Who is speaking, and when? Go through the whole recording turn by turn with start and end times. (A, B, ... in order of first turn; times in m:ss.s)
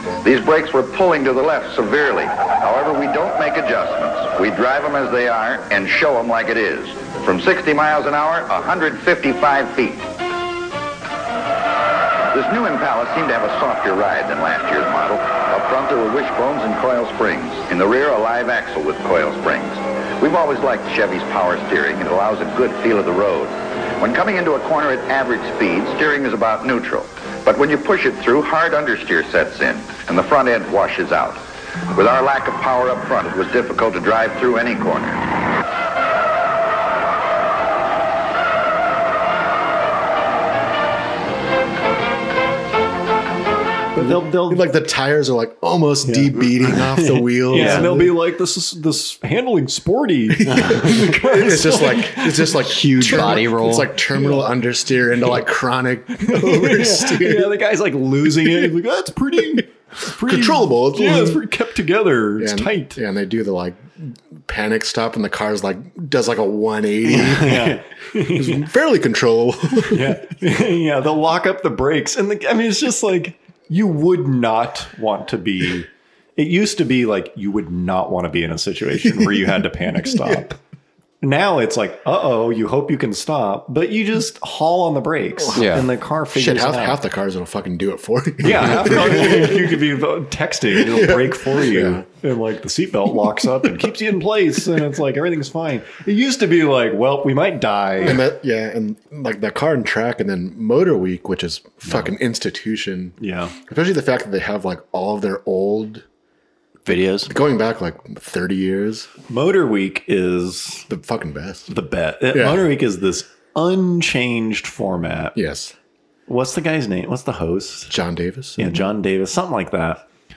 0:00.2-0:10.1 A
0:12.3-0:35.2 A
0:44.0-0:44.6 B
0:44.0-0:48.1 C
0:46.0-0:46.4 B
0:47.5-0:53.4 B
0:47.5-0:47.9 D
0:50.4-0:57.5 C
0:50.5-0:50.8 D
0:52.6-0:53.9 D
0:54.1-0:54.4 B
0:56.2-1:03.0 B
0:58.4-0:58.7 C
1:00.2-1:01.4 C
1:02.4-1:10.2 C
1:07.2-1:08.7 B
1:09.8-1:20.6 B
1:21.2-1:27.0 B
1:25.4-1:29.8 C
1:25.6-1:25.8 D
1:28.4-1:38.3 B
1:30.7-1:32.0 C
1:38.0-1:46.0 C
1:43.2-1:43.6 B
1:46.8-1:47.3 D
1:47.3-1:49.1 C
1:49.3-1:50.9 B
1:50.9-1:51.7 C
1:51.7-1:55.4 B
1:52.3-1:52.7 C
1:55.4-1:55.7 C
1:56.3-1:58.0 B
1:57.9-1:58.8 C
1:58.6-2:00.1 B